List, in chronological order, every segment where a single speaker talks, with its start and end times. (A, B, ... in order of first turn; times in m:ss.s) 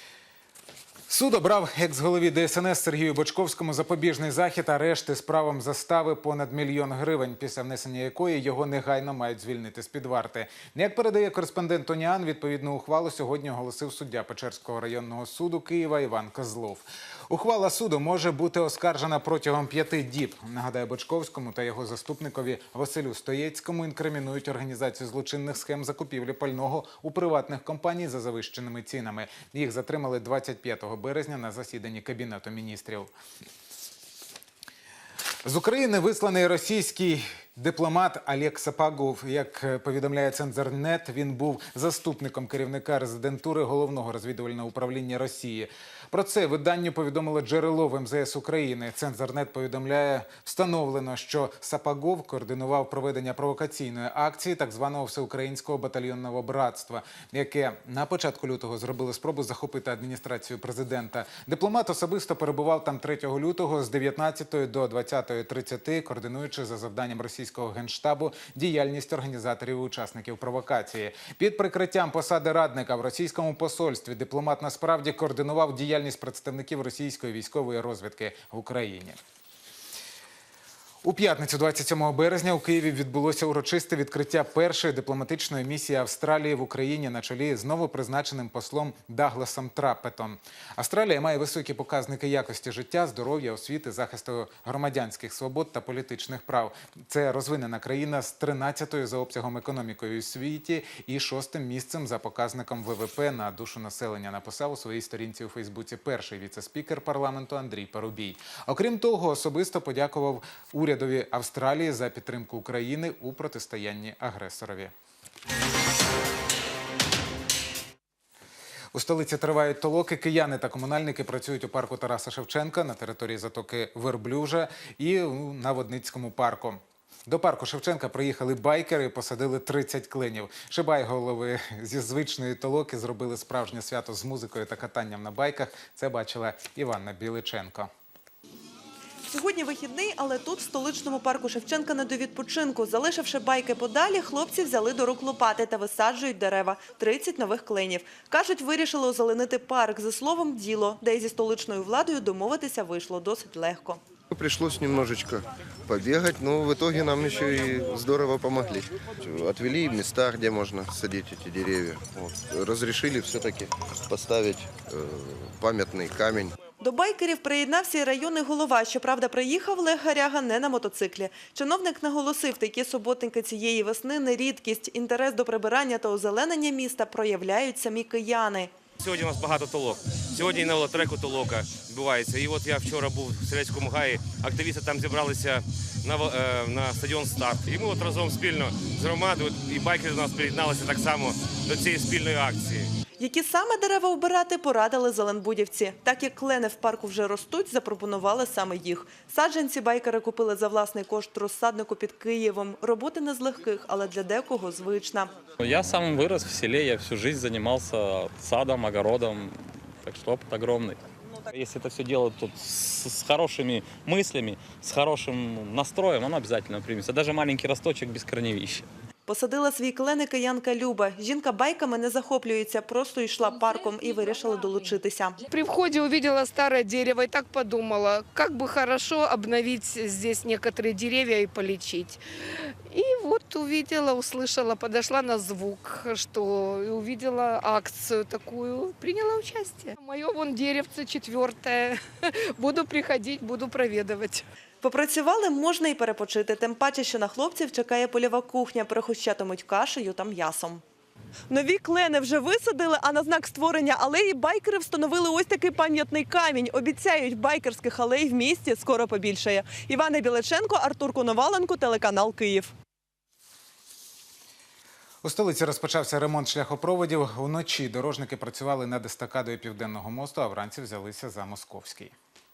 0:01.1-0:33.1 A
0:35.4-1:19.2 A
1:21.0-1:54.9 A
1:58.9-2:17.9 A
2:19.3-2:34.0 B
2:34.3-2:46.6 C
2:46.8-2:58.7 B
2:59.0-3:12.9 D
3:13.2-3:25.3 B
3:25.6-3:29.5 E
3:30.1-3:31.0 E
3:31.6-3:38.8 E
3:39.3-3:45.4 B
3:45.5-3:52.2 F
3:52.9-4:04.5 F
4:04.8-4:10.8 B
4:11.5-4:22.7 B
4:25.2-4:32.1 A